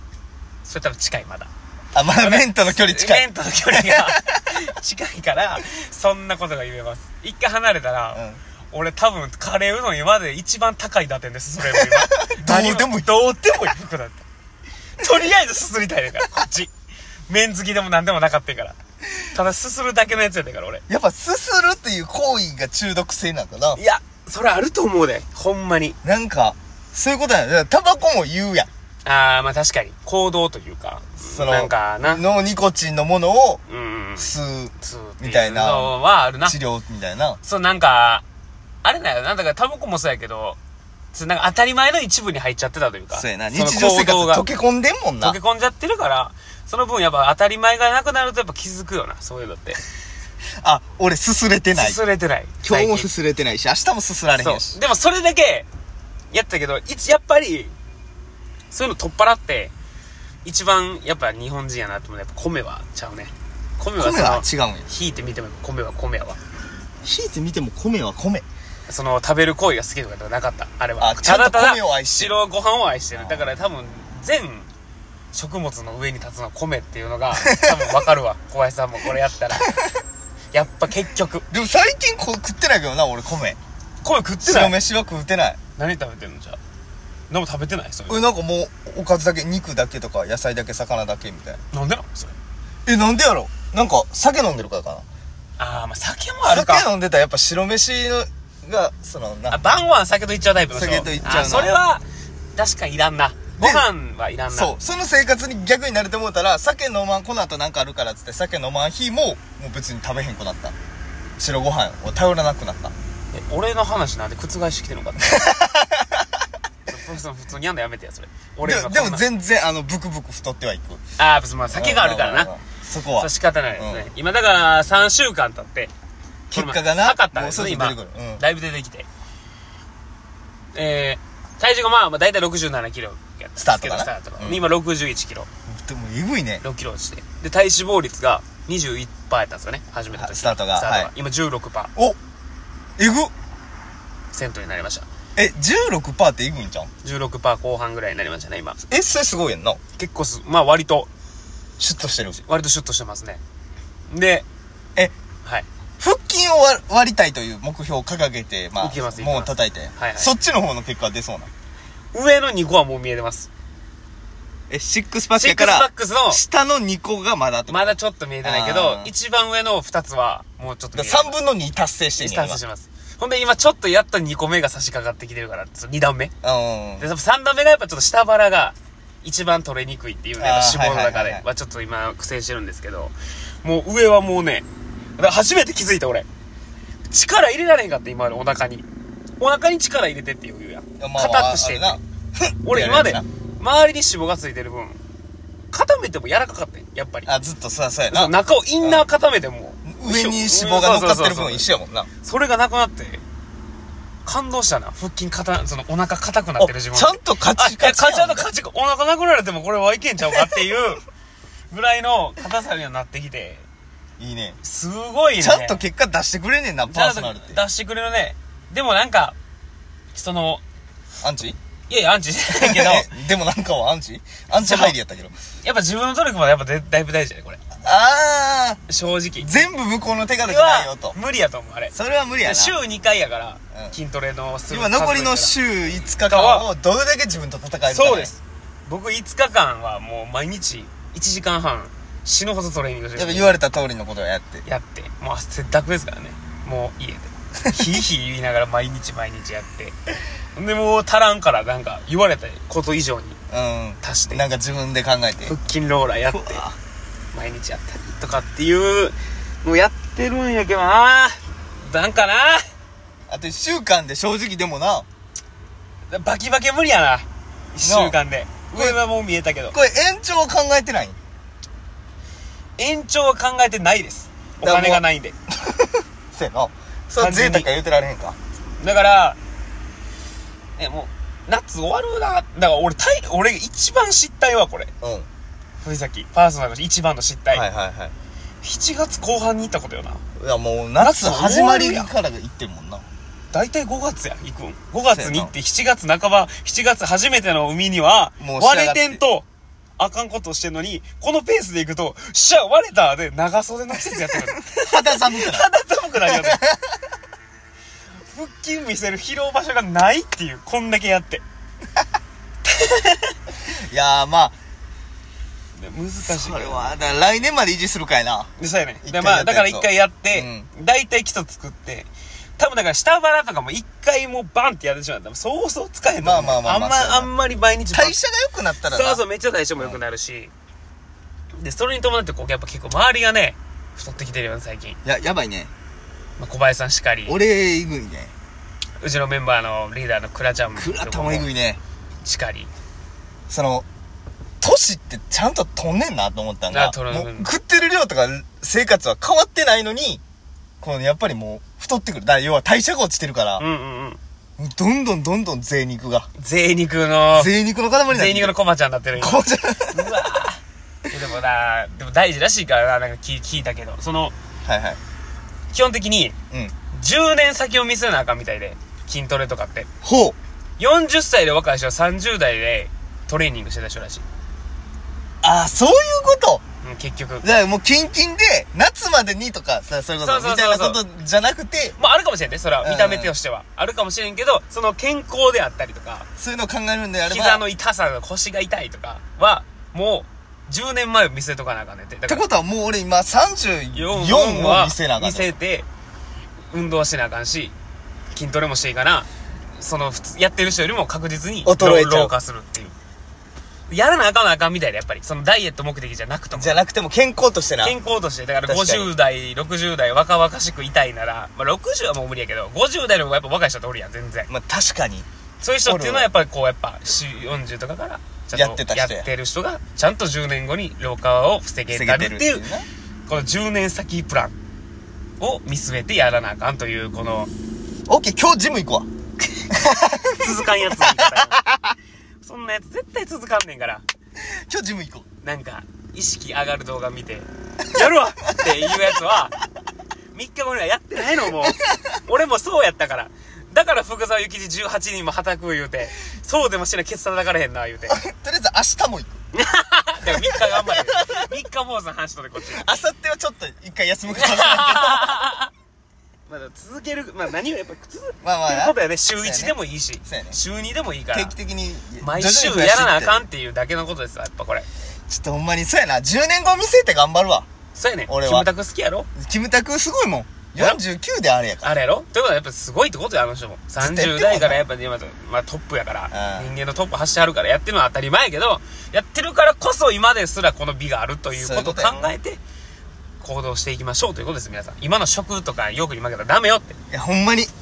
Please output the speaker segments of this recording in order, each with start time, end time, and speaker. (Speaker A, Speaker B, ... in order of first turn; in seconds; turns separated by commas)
Speaker A: 0.7-1.5, Speaker B: 1.9-4.6, Speaker A: 2.2-14.2, Speaker B: 8.2-8.4, Speaker B: 11.7-13.7, Speaker A: 15.0-16.7, Speaker A: 17.3-18.8, Speaker A: 19.3-20.8, Speaker B: 20.9-23.8, Speaker A: 23.8-26.0, Speaker B: 26.0-28.7, Speaker A: 29.1-32.2, Speaker B: 31.2-33.6, Speaker A: 33.7-36.6, Speaker B: 34.2-37.4, Speaker A: 37.4-38.2, Speaker A: 38.8-40.6, Speaker A: 41.1-44.5, Speaker B: 43.1-45.4, Speaker A: 45.2-49.8, Speaker B: 50.6-52.0, Speaker A: 51.8-53.1, Speaker B: 52.6-54.8, Speaker A: 54.4-55.7, Speaker A: 56.3-57.7, Speaker A: 58.7-59.7, Speaker A: 60.4-66.4, Speaker B: 64.0-64.9, Speaker B: 67.0-68.5, Speaker A: 68.9-74.7, Speaker B: 71.0-72.3, Speaker B: 73.2-73.5, Speaker A: 75.3-79.7, Speaker B: 77.4-77.8, Speaker A: 80.5-81.5, Speaker B: 81.5-83.6, Speaker A: 84.0-84.8, Speaker B: 84.4-85.6, Speaker A: 85.8-86.6, Speaker A: 87.3-88.2, Speaker B: 88.1-91.6, Speaker A: 91.7-92.3, Speaker B: 92.9-95.0, Speaker A: 95.6-96.9, Speaker B: 96.5-99.6, Speaker A: 99.5-102.0, Speaker B: 100.7-101.8, Speaker A: 102.6-104.7, Speaker B: 103.6-103.9, Speaker B: 104.5-110.8, Speaker B: 111.4-112.9, Speaker A: 113.3-115.5, Speaker B: 115.2-116.3, Speaker A: 116.9-119.3, Speaker B: 118.6-121.0, Speaker A: 121.2-122.5, Speaker B: 121.7-124.1, Speaker A: 123.2-125.9, Speaker B: 126.5-128.4, Speaker A: 126.5-129.1, Speaker A: 130.8-135.5, Speaker B: 133.6-134.7, Speaker B: 135.7-136.6, Speaker A: 136.6-141.9, Speaker B: 140.1-141.1, Speaker B: 143.0-143.3, Speaker A: 144.3-145.1, Speaker B: 145.4-146.9, Speaker A: 147.0-148.8, Speaker B: 148.9-149.8, Speaker A: 150.0-151.1, Speaker B: 151.8-152.4, Speaker A: 152.4-153.4, Speaker A: 154.1-154.5, Speaker B: 156.0-161.5, Speaker A: 158.8-160.3, Speaker A: 162.1-163.5, Speaker B: 164.7-169.1, Speaker A: 165.3-166.4, Speaker A: 167.7-171.4, Speaker B: 170.9-172.6, Speaker A: 172.2-176.3, Speaker B: 176.4-177.1, Speaker A: 177.0-184.7, Speaker B: 180.4-181.4, Speaker A: 185.2-186.3, Speaker A: 187.1-188.9, Speaker A: 189.4-192.0, Speaker B: 191.0-193.3, Speaker A: 192.6-195.0, Speaker A: 195.7-197.3, Speaker B: 197.3-199.1, Speaker A: 198.1-201.7, Speaker B: 199.8-202.1, Speaker A: 202.2-203.2, Speaker A: 204.2-211.0, Speaker B: 206.6-208.5, Speaker A: 211.7-213.7, Speaker B: 214.2-214.6, Speaker A: 214.6-215.8, Speaker B: 215.4-217.6, Speaker A: 216.8-219.3, Speaker A: 220.1-220.6, Speaker B: 221.2-221.6, Speaker A: 221.9-223.1, Speaker B: 222.5-225.3, Speaker A: 224.5-225.0, Speaker A: 225.6-227.6, Speaker B: 227.8-228.8, Speaker A: 228.9-229.5, Speaker B: 229.4-231.2, Speaker A: 230.4-235.6, Speaker B: 231.9-232.8, Speaker B: 234.7-238.3, Speaker A: 236.3-236.7, Speaker A: 237.9-243.6, Speaker B: 243.2-244.7, Speaker A: 244.7-250.0, Speaker A: 250.6-253.4, Speaker B: 253.5-255.6, Speaker A: 254.0-254.4, Speaker A: 255.5-256.6, Speaker B: 256.3-256.8, Speaker A: 257.3-262.6, Speaker B: 263.3-265.1, Speaker A: 266.1-269.8, Speaker B: 267.8-268.2, Speaker B: 269.7-271.2, Speaker A: 272.8-275.4, Speaker B: 274.6-278.4, Speaker A: 277.2-277.7, Speaker A: 278.8-279.4, Speaker A: 280.8-284.9, Speaker B: 285.0-285.3, Speaker A: 285.8-287.6, Speaker B: 287.5-288.1, Speaker A: 288.6-290.2, Speaker B: 290.4-293.1, Speaker A: 291.0-292.1, Speaker A: 293.5-299.5, Speaker B: 295.1-295.5, Speaker B: 298.4-299.2, Speaker A: 300.0-306.6, Speaker B: 304.7-305.7, Speaker B: 306.2-306.9, Speaker A: 308.3-311.4, Speaker A: 312.7-313.3, Speaker B: 313.7-314.6, Speaker A: 315.8-316.9, Speaker B: 316.3-318.5, Speaker A: 318.6-328.2, Speaker B: 319.0-320.7, Speaker B: 326.2-327.3, Speaker B: 327.9-329.2, Speaker A: 328.9-330.5, Speaker A: 331.6-335.0, Speaker B: 335.1-335.7, Speaker A: 336.4-337.4, Speaker B: 337.3-338.3, Speaker A: 339.0-341.5, Speaker B: 340.8-341.8, Speaker A: 342.2-342.7, Speaker B: 343.5-343.9, Speaker B: 344.6-350.2, Speaker A: 346.7-347.5, Speaker B: 350.8-353.6, Speaker A: 353.6-354.2, Speaker B: 354.6-356.3, Speaker A: 356.4-357.5, Speaker B: 357.4-358.6, Speaker A: 358.1-364.3, Speaker B: 359.1-360.2, Speaker B: 364.6-365.0, Speaker A: 365.7-366.4, Speaker A: 366.9-369.9, Speaker B: 370.0-370.4, Speaker A: 370.8-374.2, Speaker B: 375.4-376.6, Speaker A: 376.8-377.5, Speaker B: 377.4-382.0, Speaker A: 380.2-381.0, Speaker A: 382.0-386.3, Speaker B: 382.8-383.3, Speaker B: 386.4-387.6, Speaker A: 387.3-392.4, Speaker B: 392.3-395.5, Speaker A: 393.9-395.9, Speaker A: 396.7-397.7, Speaker A: 398.3-402.9, Speaker B: 401.6-402.3, Speaker A: 403.9-406.8, Speaker B: 406.5-408.0, Speaker A: 407.8-414.5, Speaker B: 408.6-409.1, Speaker B: 414.5-415.3, Speaker A: 415.6-422.6, Speaker B: 415.9-416.3, Speaker B: 418.5-419.3, Speaker B: 421.9-422.9, Speaker A: 423.3-424.6, Speaker A: 425.4-427.5, Speaker B: 428.1-429.1, Speaker B: 429.7-432.0, Speaker A: 430.3-431.6, Speaker A: 432.4-434.0, Speaker B: 434.4-435.3, Speaker A: 435.4-439.6, Speaker B: 437.9-439.1, Speaker A: 440.3-448.2, Speaker B: 441.7-442.2, Speaker B: 448.1-449.4, Speaker A: 449.5-453.0, Speaker B: 450.3-451.4, Speaker B: 452.7-455.4, Speaker A: 454.3-455.7, Speaker A: 456.5-461.5, Speaker B: 458.4-460.6, Speaker B: 461.3-463.5, Speaker A: 462.2-464.9, Speaker B: 465.3-467.7, Speaker A: 467.9-469.3, Speaker B: 468.3-468.7, Speaker B: 469.4-471.9, Speaker A: 471.8-482.6, Speaker B: 474.0-474.8, Speaker B: 476.3-476.7, Speaker B: 481.5-482.3, Speaker A: 483.4-487.0, Speaker B: 487.1-487.7